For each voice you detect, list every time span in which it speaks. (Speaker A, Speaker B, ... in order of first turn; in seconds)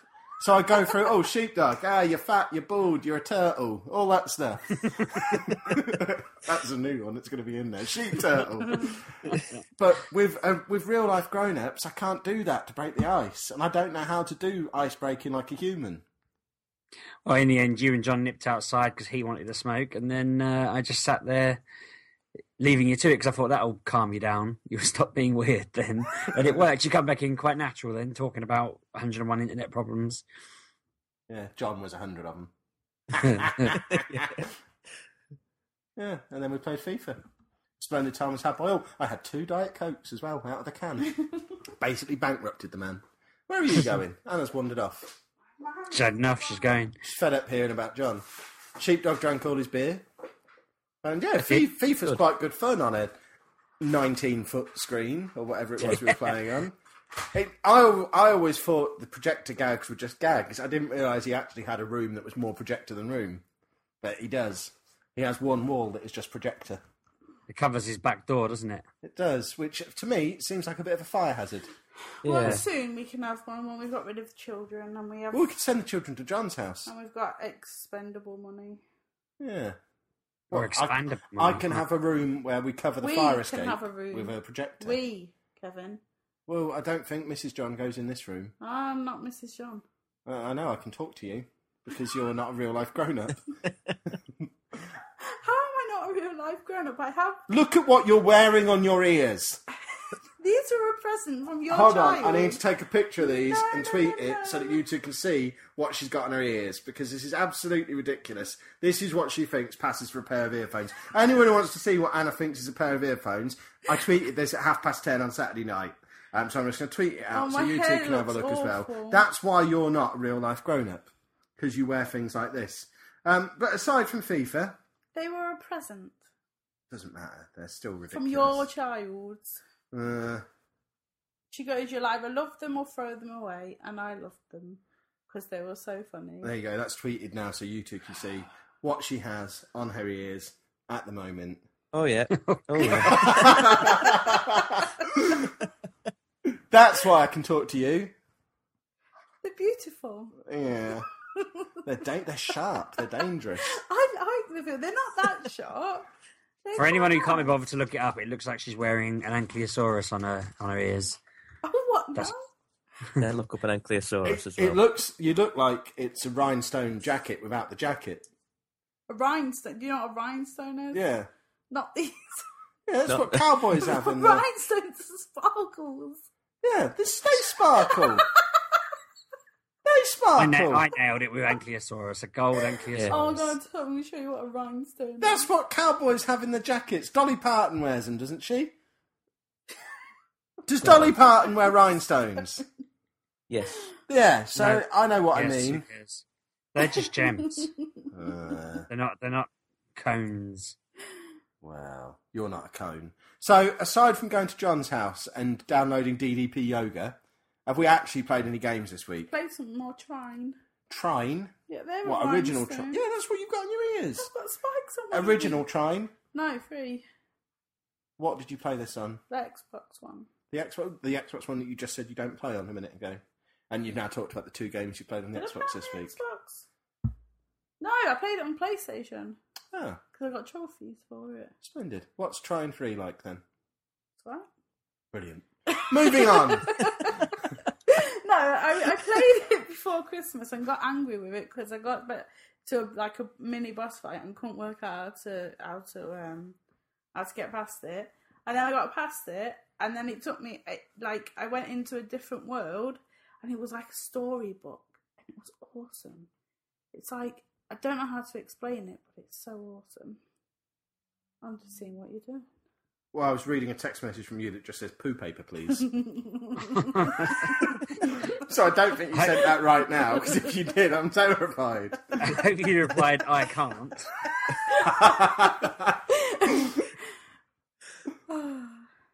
Speaker A: 0.4-16.0, 31.3-32.5, 33.1-34.5, 36.0-37.2, 37.8-45.2, 47.0-48.2, 48.8-50.0, 51.0-53.1, 53.8-56.8, 57.3-63.4, 64.0-66.8, 69.0-71.7, 75.3-76.9, 79.4-79.8, 80.5-85.0, 86.5-88.5, 90.2-93.4, 94.1-94.5, 97.5-99.6, 101.7-124.8, 126.9-128.7, 129.9-130.4, 136.4-141.6, 142.8-145.5, 146.4-148.1, 150.4-151.1, 151.8-153.8, 164.2-168.3, 170.9-171.3, 172.9-174.4, 176.6-178.2, 179.8-180.8, 185.2-188.7, 190.7-192.6, 194.1-195.8, 198.1-198.9, 201.6-209.3, 210.9-214.3, 215.1-216.1, 218.2-219.2, 220.5-226.2, 229.7-230.0, 231.6-233.4, 235.1-236.8, 263.1-265.9, 267.3-272.4, 274.8-276.0
Speaker B: 17.2-21.6, 22.6-30.2, 33.4-33.7, 45.9-47.0, 67.5-68.8, 80.5-81.8, 142.3-143.6, 156.8-161.2, 180.4-183.6, 194.5-197.7, 198.9-200.8, 266.9-267.5, 269.1-269.4, 272.2-274.1
Speaker C: 72.2-75.5, 76.8-78.8, 83.0-86.0, 88.6-89.8, 95.2-97.4, 100.4-102.6, 103.2-104.8, 117.3-119.2, 125.1-126.2, 128.1-129.6, 131.5-136.5, 143.3-144.2, 149.4-150.3, 151.3-151.7, 153.6-156.1, 156.6-157.5, 161.6-162.5, 169.1-171.0, 171.7-172.4, 173.8-176.2, 177.5-178.8, 183.1-185.5, 196.9-197.7, 209.3-210.6, 211.7-213.0, 214.2-215.6, 216.3-217.0, 219.3-220.3, 225.3-226.7, 227.8-229.4, 230.1-231.5, 234.2-234.5, 235.7-246.6, 247.1-256.3, 256.9-260.2, 261.4-262.5, 265.9-268.1, 274.5-275.3, 276.1-276.9, 278.3-278.7
Speaker D: 72.2-72.6, 141.9-144.1, 163.2-164.8, 173.1-173.4, 193.5-193.9